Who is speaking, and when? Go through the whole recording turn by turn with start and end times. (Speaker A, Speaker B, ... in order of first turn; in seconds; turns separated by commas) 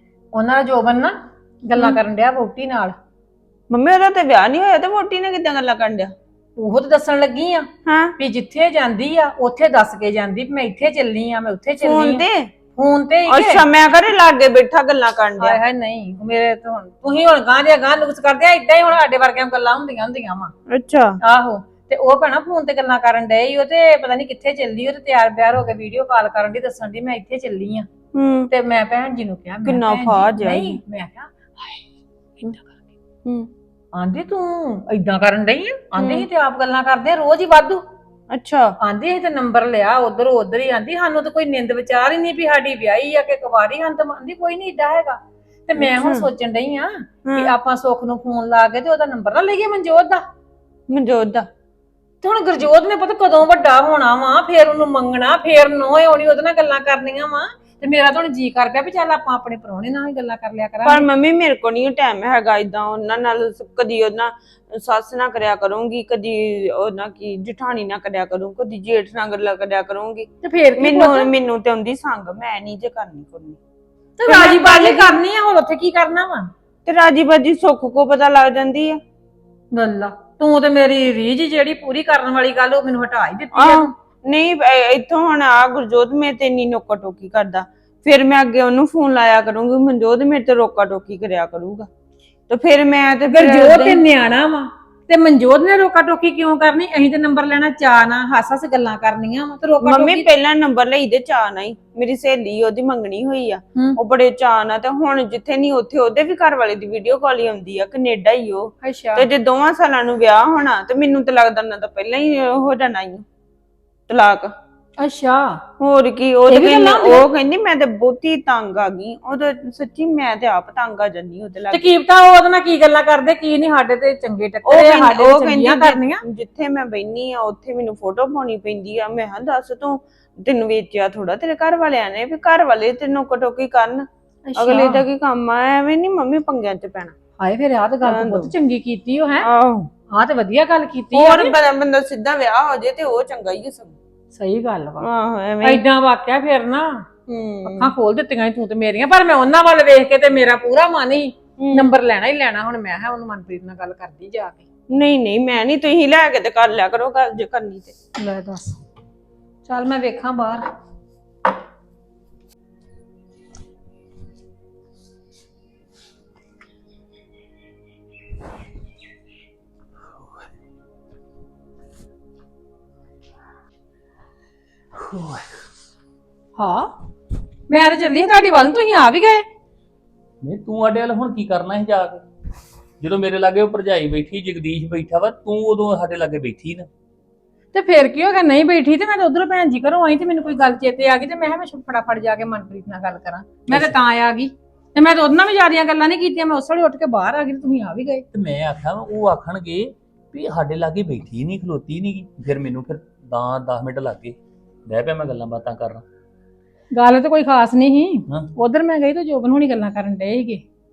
Speaker A: 0.3-3.0, Speaker B: 3.7-6.1, Speaker A: 6.6-7.7, Speaker B: 7.9-8.1, Speaker A: 8.2-13.7, Speaker B: 11.8-12.5, Speaker B: 13.3-15.6, Speaker A: 15.4-20.5, Speaker B: 20.7-21.2, Speaker A: 21.2-27.9, Speaker B: 28.1-28.5, Speaker A: 28.5-31.8, Speaker B: 29.6-30.8, Speaker B: 33.2-33.5, Speaker A: 34.0-37.8, Speaker B: 38.3-38.8, Speaker A: 38.8-50.2, Speaker B: 45.8-46.2, Speaker B: 50.9-51.5, Speaker A: 52.2-61.1, Speaker B: 60.9-73.6, Speaker A: 70.4-71.3, Speaker A: 74.2-76.5, Speaker B: 74.2-75.0, Speaker B: 76.8-79.0, Speaker A: 79.7-83.9, Speaker B: 83.5-91.9, Speaker B: 92.5-94.0, Speaker A: 93.3-100.3, Speaker B: 99.8-113.2, Speaker A: 108.8-109.2, Speaker B: 114.1-114.5, Speaker A: 115.0-115.6, Speaker B: 115.8-121.8, Speaker A: 116.5-117.2, Speaker A: 121.7-126.2, Speaker B: 124.7-137.2, Speaker A: 134.5-135.0, Speaker A: 137.4-139.5, Speaker B: 138.1-138.4, Speaker B: 139.4-139.9, Speaker A: 140.1-141.5, Speaker B: 141.1-144.0, Speaker A: 144.3-145.1, Speaker B: 145.0-145.8, Speaker A: 145.6-147.1, Speaker B: 147.3-147.9, Speaker A: 147.7-154.7, Speaker B: 151.6-151.9, Speaker B: 154.9-157.9, Speaker A: 158.2-158.8, Speaker A: 159.7-160.6, Speaker C: 175.0-175.5, Speaker A: 176.6-176.9, Speaker A: 177.7-179.5, Speaker C: 180.4-182.2, Speaker C: 183.0-186.9, Speaker A: 187.7-198.2, Speaker C: 193.7-194.0, Speaker C: 198.3-206.0, Speaker A: 206.9-210.6